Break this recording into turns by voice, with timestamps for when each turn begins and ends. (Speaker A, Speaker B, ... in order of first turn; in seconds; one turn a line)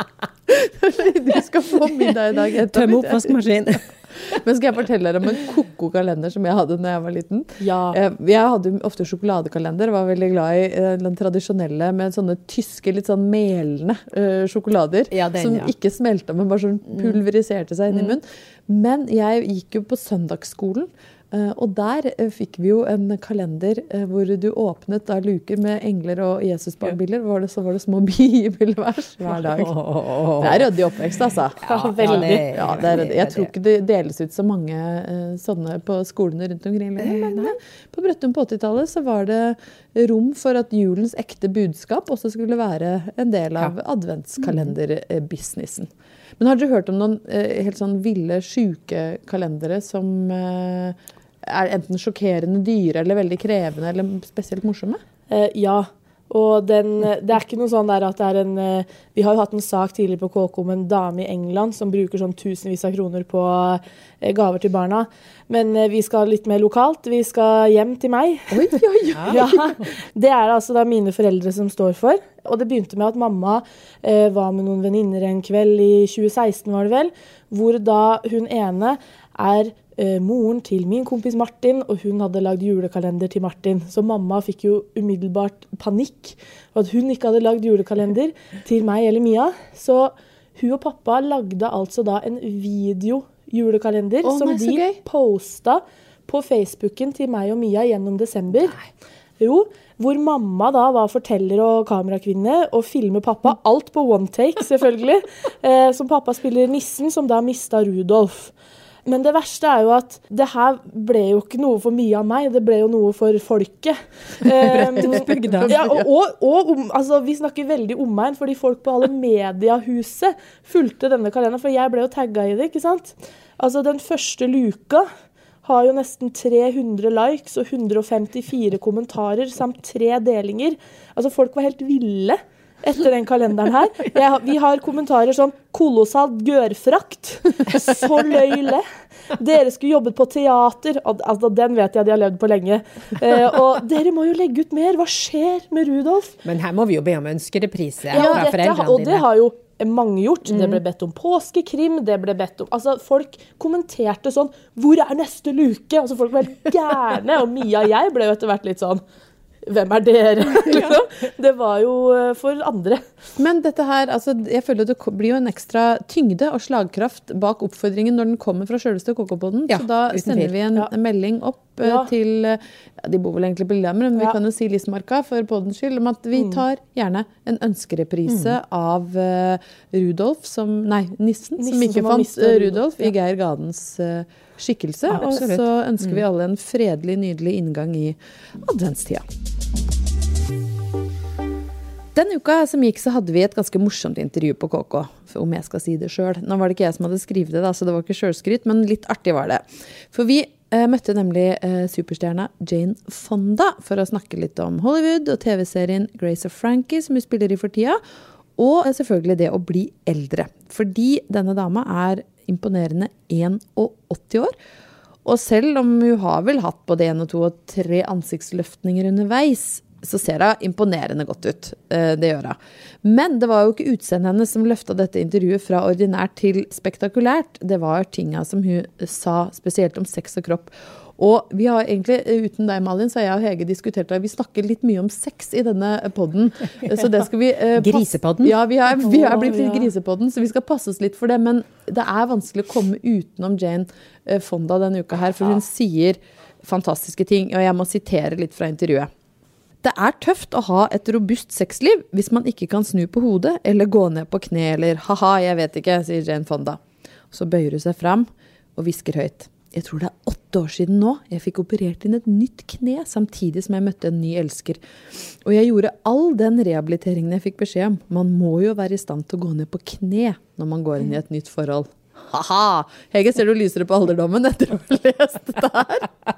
Speaker A: 0.5-3.3
Speaker B: 2.0-4.0
Speaker A: 4.2-55.0
Speaker C: 7.6-8.0
Speaker B: 15.1-15.7
Speaker B: 29.3-30.7
Speaker B: 31.6-33.5
Speaker C: 31.7-32.5
Speaker B: 37.0-37.5
Speaker C: 55.3-68.7
Speaker A: 68.5-69.7
Speaker B: 69.1-69.4
Speaker C: 69.3-98.8
Speaker A: 94.2-95.0
Speaker C: 99.4-108.5
Speaker C: 109.0-125.1
Speaker A: 114.5-116.1
Speaker B: 114.8-115.8
Speaker C: 125.6-146.4
Speaker B: 146.4-149.2
Speaker C: 148.1-159.0
Speaker A: 148.1-148.5
Speaker B: 150.5-150.8
Speaker C: 159.6-163.0
Speaker A: 163.4-189.2
Speaker B: 169.7-170.5
Speaker C: 171.8-172.1
Speaker C: 176.3-176.6
Speaker B: 178.3-178.5
Speaker C: 181.6-183.1
Speaker B: 185.1-186.2
Speaker A: 192.2-208.0
Speaker A: 208.6-214.5
Speaker A: 215.2-249.1
Speaker B: 237.8-238.6
Speaker C: 239.1-239.9
Speaker A: 249.8-256.8
Speaker A: 257.3-264.8
Speaker A: 265.4-276.1